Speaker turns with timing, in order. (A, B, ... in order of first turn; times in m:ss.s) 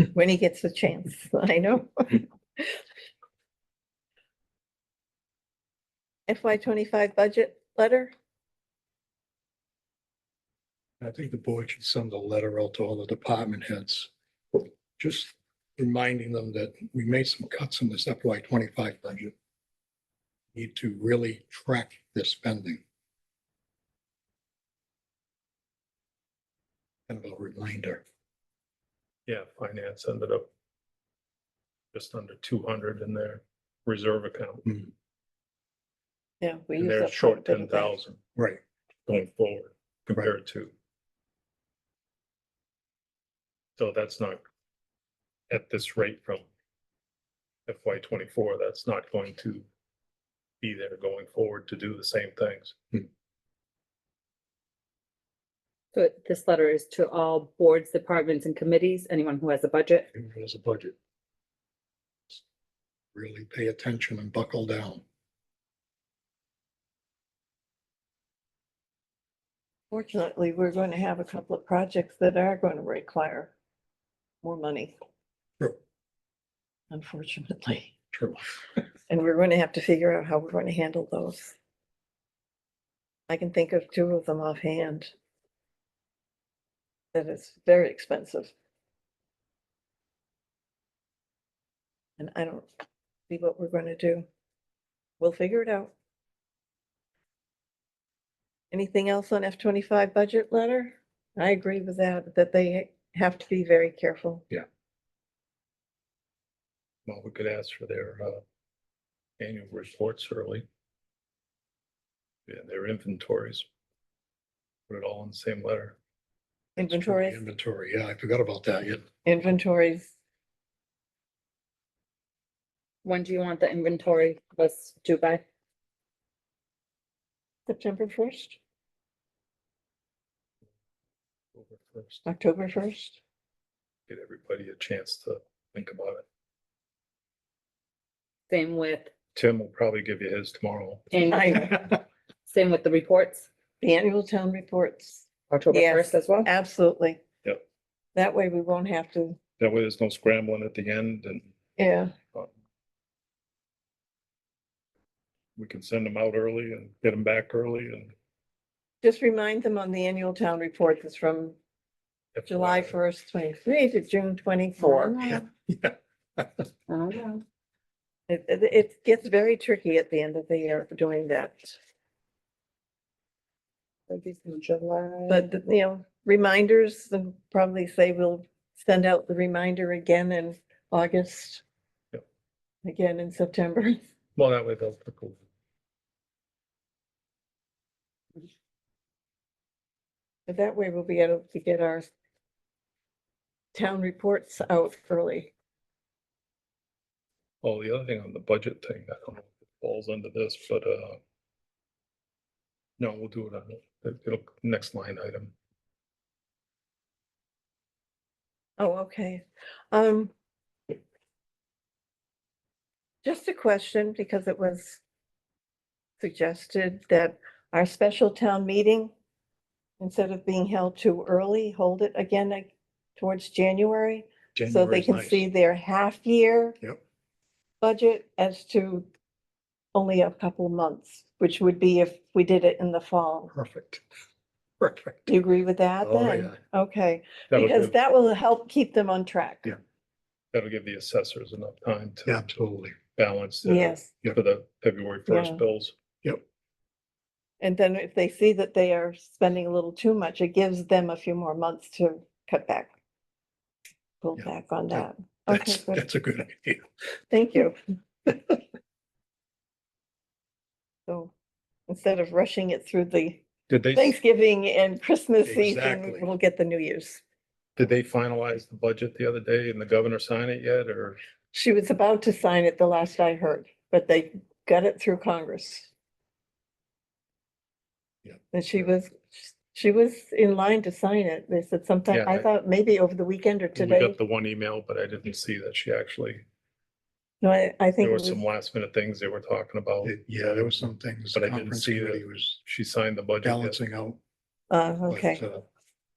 0:00.1-0:02.8 A
0:06.3-0:08.1 A
0:11.0-0:19.3 B
0:20.5-0:22.8 B
0:27.1-0:28.0 B
0:29.3-0:30.5 C
0:31.9-0:34.7 C
0:36.4-0:38.0 A
0:36.8-0:38.2 C
0:38.4-0:38.6 B
0:39.1-0:40.7 C
0:43.8-0:44.4 C
0:45.5-0:46.5 C
0:47.7-0:49.7 C
0:50.6-0:53.0 C
0:55.9-1:00.1 D
1:00.1-1:01.0 B
1:03.1-1:05.0 B
1:09.9-1:13.5 A
1:14.4-1:15.0 A
1:16.9-1:17.9 A
1:18.1-1:18.4 B
1:19.1-1:21.6 A
1:23.3-1:25.1 A
1:27.1-1:28.5 A
1:32.2-1:32.7 A
1:33.3-1:34.3 A
1:35.2-1:35.9 A
1:38.7-1:44.4 A
1:47.1-1:48.4 C
1:49.4-1:50.7 C
1:52.5-1:53.7 C
1:54.9-1:56.0 C
1:56.8-1:57.4 A
1:56.8-1:59.1 B
1:59.2-2:00.1 A
2:03.0-2:05.4 D
2:07.7-2:08.6 A
2:11.5-2:12.2 C
2:12.2-2:13.2 A
2:14.1-2:16.2 C
2:18.5-2:19.1 D
2:19.4-2:21.1 C
2:21.1-2:23.5 D
2:21.3-2:21.8 A
2:23.8-2:27.2 A
2:25.5-2:26.5 D
2:28.2-2:29.4 A
2:29.6-2:31.5 C
2:31.8-2:32.1 A
2:35.6-2:38.1 C
2:39.0-2:41.6 A
2:42.4-2:43.0 C
2:42.5-2:45.2 A
2:44.8-2:45.5 D
2:45.3-2:46.6 B
2:46.9-2:47.4 D
2:48.3-2:51.8 A
2:54.1-2:55.5 D
2:55.3-3:01.6 A
3:02.8-3:04.0 A
3:04.4-3:05.4 C
3:10.5-3:12.1 A
3:13.7-3:15.5 A
3:17.6-3:21.2 C
3:23.0-3:25.5 C
3:28.8-3:30.3 A
3:33.2-3:35.0 A
3:36.2-3:39.1 A
3:40.0-3:46.8 A
3:44.6-3:45.4 B
3:47.8-3:49.1 A
3:49.9-3:53.5 A
3:53.5-3:54.0 B
3:54.8-3:55.4 B
3:55.3-3:59.7 A
3:56.0-3:56.6 B
3:57.5-3:58.0 C
4:00.5-4:02.4 C
4:02.3-4:03.0 B
4:03.2-4:06.0 C
4:03.6-4:04.1 A
4:05.3-4:05.6 A
4:07.6-4:12.9 A
4:14.2-4:16.0 A
4:14.4-4:16.9 B
4:17.3-4:17.8 A
4:21.1-4:21.3 A
4:21.9-4:27.2 A
4:23.7-4:24.2 C
4:25.4-4:26.2 B
4:27.8-4:31.2 C
4:31.5-4:35.9 A
4:38.5-4:44.2 A
4:42.1-4:42.5 C
4:43.8-4:46.4 C
4:47.4-4:48.5 A
4:48.0-4:50.1 C
4:50.0-4:52.6 B
4:51.3-4:53.8 C
4:53.4-4:54.2 B
4:54.7-4:55.4 A
4:55.1-4:55.6 B